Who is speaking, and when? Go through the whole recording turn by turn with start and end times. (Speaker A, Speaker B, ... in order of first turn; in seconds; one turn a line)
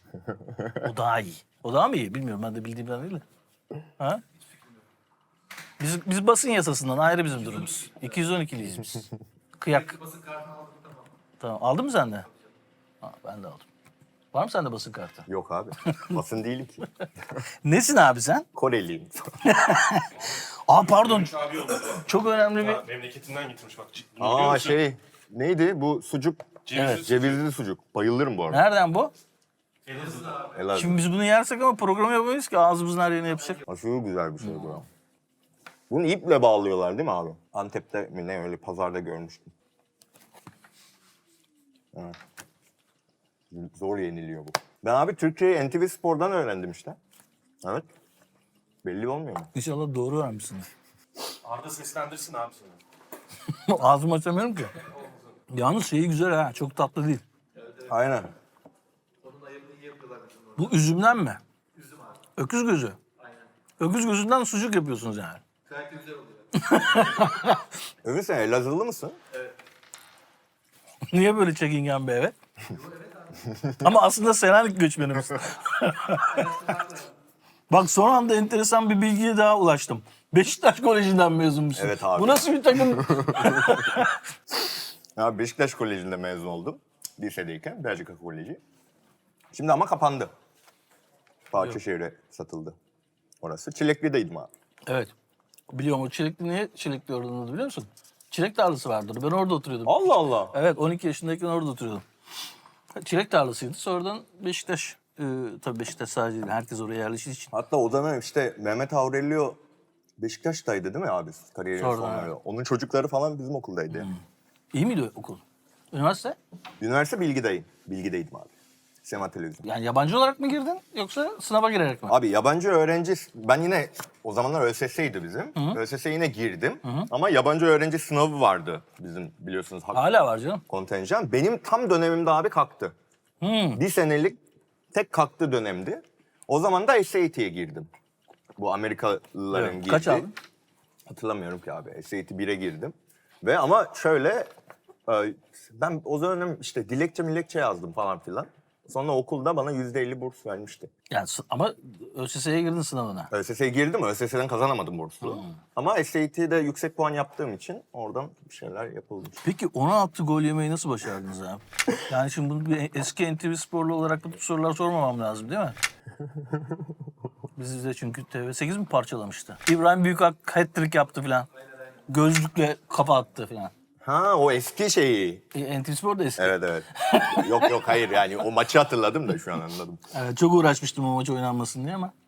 Speaker A: 0.3-0.7
Speaker B: 0.8-3.2
Speaker B: 5.8-10.1
Speaker B: 11.4-12.3
Speaker B: 13.0-13.7
Speaker B: 14.3-15.3
Speaker A: 15.3-16.9
Speaker B: 17.6-18.5
Speaker A: 18.5-19.3
Speaker B: 19.4-20.1
Speaker C: 20.2-22.0
Speaker B: 20.7-21.3
Speaker B: 21.9-22.8
Speaker C: 22.6-24.8
Speaker A: 24.2-28.6
Speaker C: 26.7-27.4
Speaker B: 26.7-27.1
Speaker B: 28.5-29.1
Speaker C: 29.9-30.5
Speaker A: 30.5-31.0
Speaker B: 30.7-33.6
Speaker A: 33.7-34.9
Speaker B: 34.4-34.8
Speaker A: 35.9-39.5
Speaker A: 41.9-42.2
Speaker A: 43.5-47.0
Speaker A: 48.8-49.5
Speaker B: 49.5-50.7
Speaker C: 51.4-52.8
Speaker B: 53.5-54.8
Speaker C: 54.9-55.1
Speaker B: 55.5-57.2
Speaker A: 57.8-58.3
Speaker B: 60.5-61.4
Speaker B: 62.4-63.0
Speaker B: 63.8-65.4
Speaker B: 66.5-67.6
Speaker A: 68.0-69.2
Speaker B: 71.1-72.3
Speaker A: 73.5-73.8
Speaker B: 73.8-76.9
Speaker B: 77.7-84.2
Speaker A: 81.8-84.0
Speaker A: 85.2-88.6
Speaker A: 89.5-90.3
Speaker A: 91.5-92.8
Speaker A: 93.4-94.5
Speaker B: 94.9-95.1
Speaker B: 95.7-102.0
Speaker A: 99.8-100.5
Speaker B: 102.9-107.5
Speaker A: 107.5-109.6
Speaker A: 110.2-114.1
Speaker B: 111.8-112.3
Speaker B: 113.9-114.2
Speaker B: 114.7-116.3
Speaker A: 116.8-118.5
Speaker A: 119.0-119.6
Speaker B: 119.6-122.2
Speaker A: 122.1-130.1
Speaker B: 125.5-125.8
Speaker B: 126.8-127.1
Speaker B: 129.9-130.6
Speaker A: 130.7-132.9
Speaker B: 133.4-133.8
Speaker A: 133.7-134.4
Speaker A: 134.9-137.9
Speaker A: 138.6-140.3
Speaker B: 139.5-140.3
Speaker A: 141.1-144.5
Speaker A: 145.1-150.9
Speaker B: 151.1-153.3
Speaker A: 153.3-159.4
Speaker B: 155.2-155.5
Speaker B: 159.4-165.8
Speaker B: 167.6-171.5
Speaker B: 172.1-173.7
Speaker A: 174.0-175.4
Speaker B: 175.5-178.1
Speaker A: 176.4-180.0
Speaker B: 180.1-182.1